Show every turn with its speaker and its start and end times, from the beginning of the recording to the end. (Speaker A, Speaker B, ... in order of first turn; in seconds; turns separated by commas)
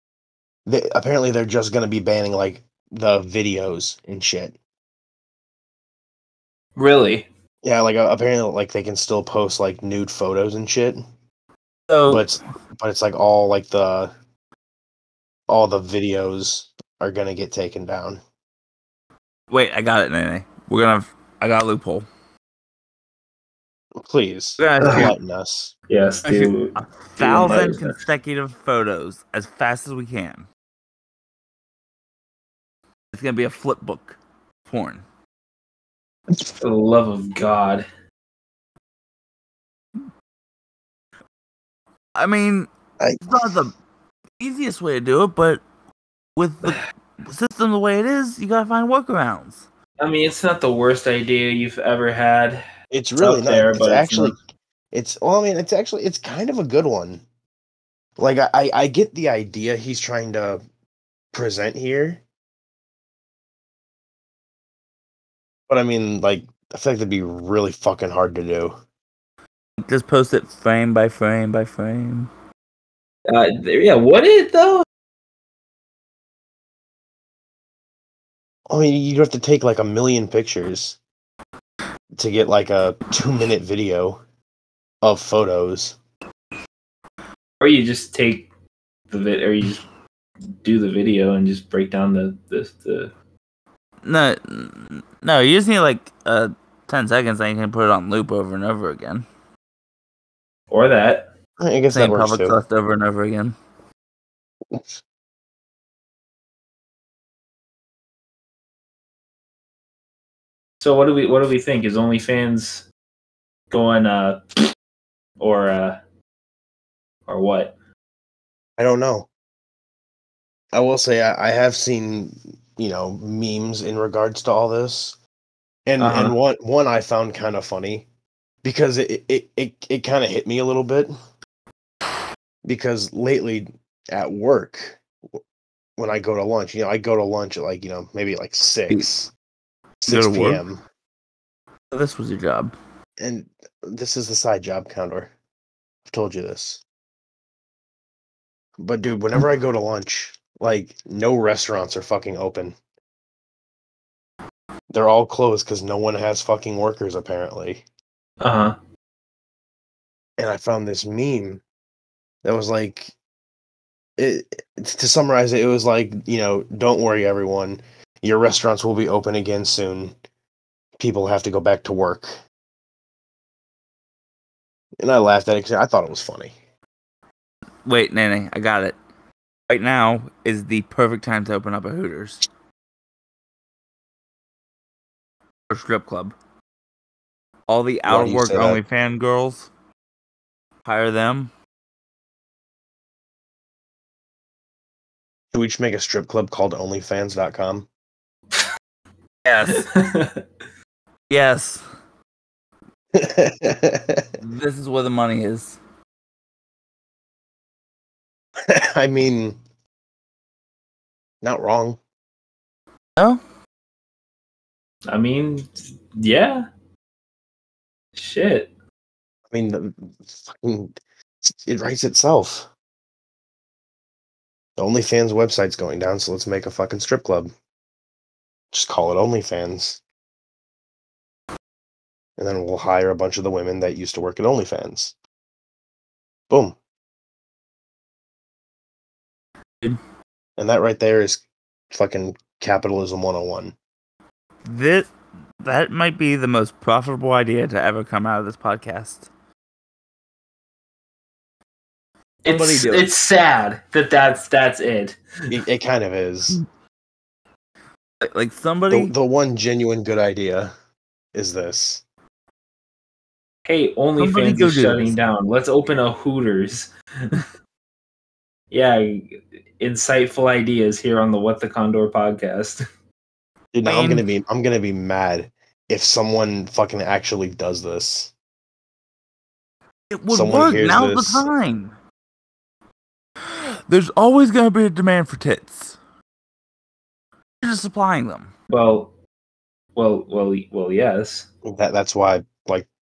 Speaker A: 0.7-4.5, Speaker B: 6.8-7.3, Speaker A: 7.6-11.0, Speaker C: 11.9-12.2, Speaker A: 12.1-14.1, Speaker A: 15.5-18.2, Speaker C: 19.5-22.1, Speaker A: 24.0-25.7, Speaker C: 24.6-25.1, Speaker B: 24.8-25.1, Speaker B: 25.9-28.0, Speaker C: 26.2-30.4, Speaker C: 33.1-35.0, Speaker A: 36.3-36.6, Speaker B: 36.6-37.9, Speaker C: 42.1-42.7, Speaker A: 43.0-43.5, Speaker C: 43.2-43.7, Speaker C: 44.4-45.6, Speaker C: 46.4-49.7, Speaker B: 50.0-52.6, Speaker A: 52.9-54.4, Speaker B: 53.2-54.4, Speaker A: 54.9-57.2, Speaker A: 58.2-60.6, Speaker A: 61.3-62.2, Speaker A: 65.7-68.8, Speaker C: 69.8-72.3, Speaker B: 73.3-74.8, Speaker A: 78.7-81.0, Speaker A: 82.2-84.2, Speaker A: 85.0-86.0, Speaker B: 87.6-88.5, Speaker B: 89.1-89.8, Speaker B: 90.6-93.1, Speaker C: 94.0-99.2, Speaker B: 100.7-101.3, Speaker A: 101.6-102.6, Speaker C: 101.9-103.5, Speaker B: 110.8-112.9, Speaker B: 113.7-114.6, Speaker B: 115.4-116.0, Speaker B: 117.3-117.7, Speaker A: 118.8-119.3, Speaker A: 120.7-125.2, Speaker A: 125.9-128.1, Speaker B: 126.0-126.3, Speaker A: 128.6-131.1, Speaker A: 132.6-135.0, Speaker A: 136.0-139.3, Speaker A: 140.0-140.8, Speaker C: 140.1-140.6, Speaker C: 141.9-142.7, Speaker A: 143.2-145.3, Speaker A: 146.1-146.8, Speaker A: 148.8-152.8, Speaker A: 154.9-157.8, Speaker B: 158.4-158.7, Speaker A: 160.4-161.6, Speaker A: 162.4-163.1, Speaker A: 164.2-170.1, Speaker A: 171.0-172.3, Speaker A: 175.0-176.5, Speaker C: 177.8-178.9, Speaker C: 179.7-182.4, Speaker C: 185.7-186.3, Speaker C: 187.7-189.7, Speaker A: 188.1-188.8, Speaker C: 190.8-191.5, Speaker A: 195.5-197.9, Speaker C: 199.4-199.9, Speaker B: 199.7-200.4, Speaker C: 201.3-201.8, Speaker A: 203.1-204.3, Speaker C: 204.4-205.8, Speaker A: 208.6-209.6, Speaker A: 211.4-212.0, Speaker B: 215.1-216.7, Speaker B: 218.1-218.7, Speaker A: 219.5-222.7, Speaker A: 224.8-227.5, Speaker A: 228.7-230.0, Speaker A: 232.4-235.1, Speaker A: 236.5-236.8, Speaker A: 240.6-243.7, Speaker C: 244.7-245.1, Speaker C: 245.6-249.3, Speaker B: 252.4-255.5, Speaker C: 252.4-253.1, Speaker A: 255.5-256.6, Speaker C: 258.2-259.1, Speaker A: 258.9-260.7, Speaker A: 261.3-262.0, Speaker B: 263.6-267.4, Speaker C: 264.2-265.1, Speaker B: 268.7-272.8, Speaker A: 273.7-278.3, Speaker C: 273.8-274.2, Speaker C: 280.1-281.9, Speaker A: 280.3-281.4, Speaker C: 283.4-286.0, Speaker C: 287.6-288.5, Speaker B: 288.7-289.1, Speaker B: 289.9-291.5, Speaker A: 291.6-292.9